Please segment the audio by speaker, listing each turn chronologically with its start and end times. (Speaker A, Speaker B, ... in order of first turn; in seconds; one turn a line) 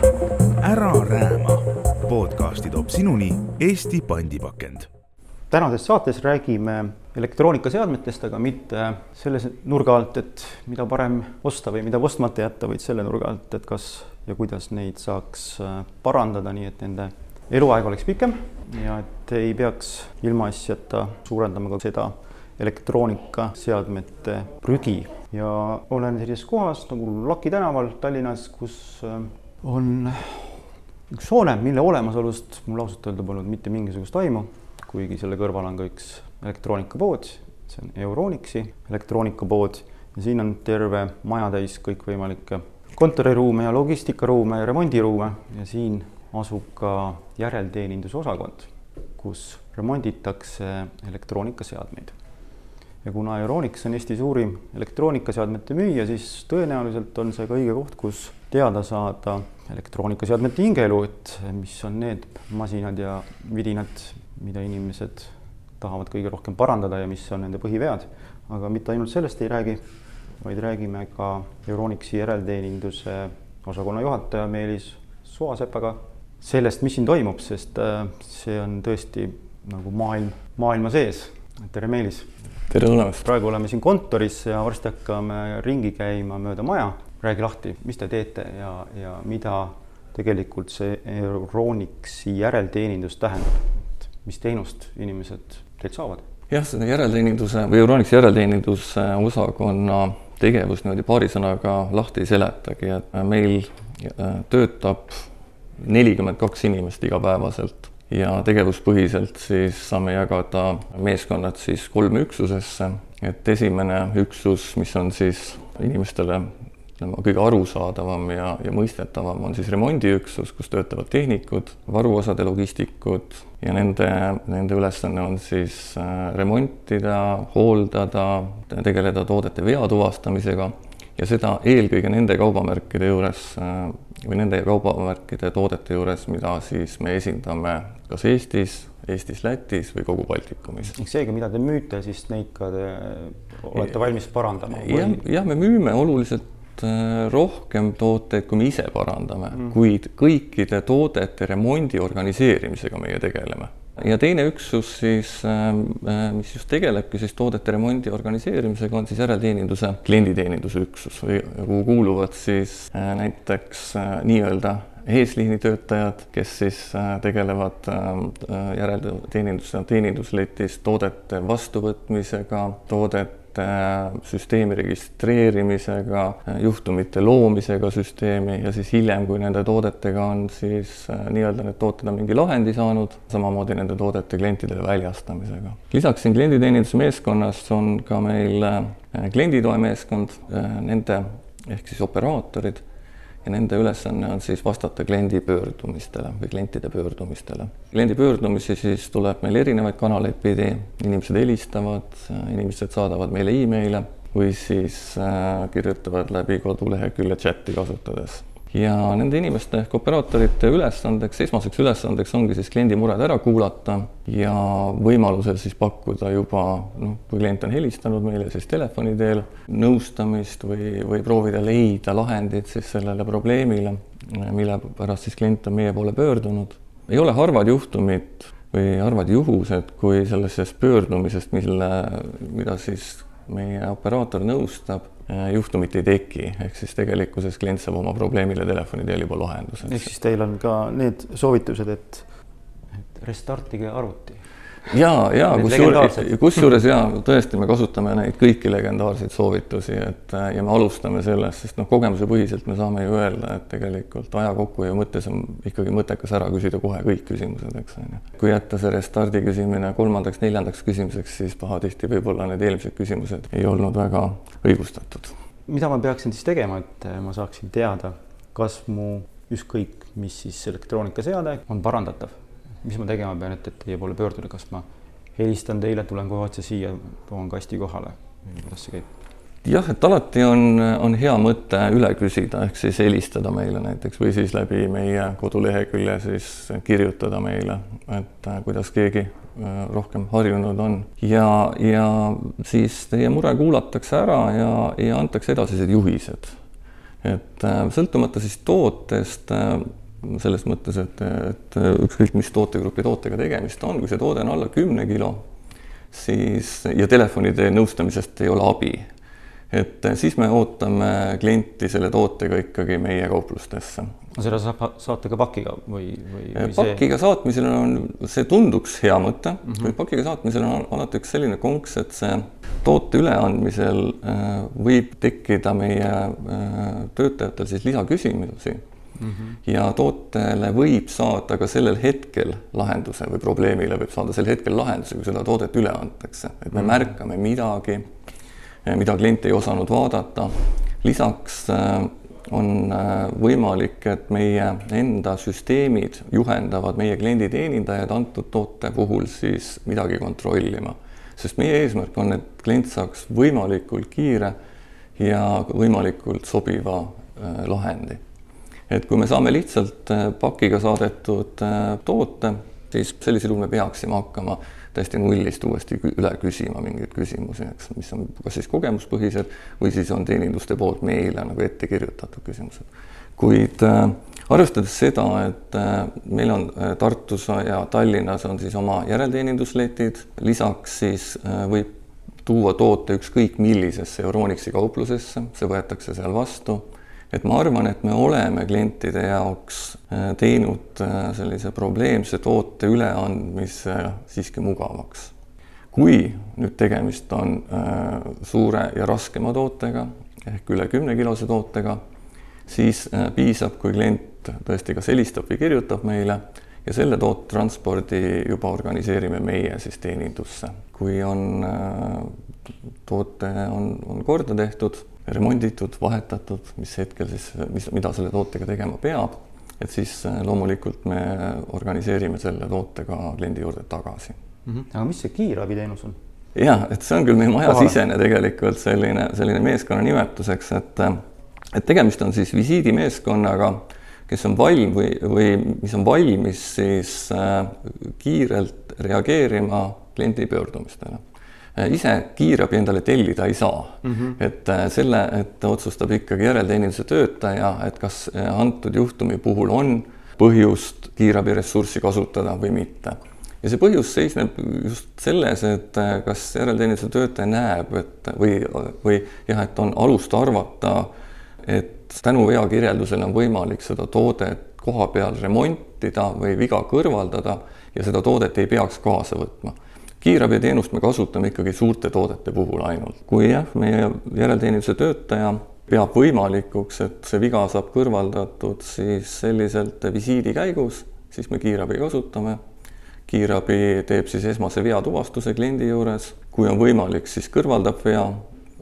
Speaker A: 0.6-4.9
Speaker B: 5.5-30.6
Speaker B: 31.1-52.1
Speaker B: 53.0-69.9
Speaker B: 70.4-82.3
Speaker C: 82.7-83.2
Speaker B: 83.2-96.2
Speaker C: 96.5-105.3
Speaker C: 105.8-140.9
Speaker B: 140.9-145.2
Speaker C: 144.7-192.8
Speaker C: 193.4-240.1
Speaker B: 239.9-242.2
Speaker B: 243.1-244.4
Speaker C: 244.9-265.3
Speaker B: 245.5-246.3
Speaker B: 265.7-274.8
Speaker B: 275.4-279.1
Speaker C: 279.6-296.6
Speaker C: 297.2-305.4
Speaker C: 306.1-309.1
Speaker C: 309.7-314.1
Speaker B: 314.4-317.0
Speaker C: 316.5-328.8
Speaker B: 319.7-319.9
Speaker B: 329.2-329.6
Speaker C: 329.6-338.1
Speaker C: 338.8-354.5
Speaker C: 355.2-358.2
Speaker C: 358.9-372.8
Speaker C: 373.4-381.9
Speaker C: 382.4-395.3
Speaker C: 395.9-402.0
Speaker C: 402.7-412.3
Speaker C: 413.1-424.4
Speaker B: 424.6-426.2
Speaker C: 426.5-431.2
Speaker B: 427.6-427.9
Speaker C: 431.7-441.2
Speaker C: 441.7-461.1
Speaker B: 444.0-444.4
Speaker C: 461.6-482.6
Speaker C: 483.3-488.4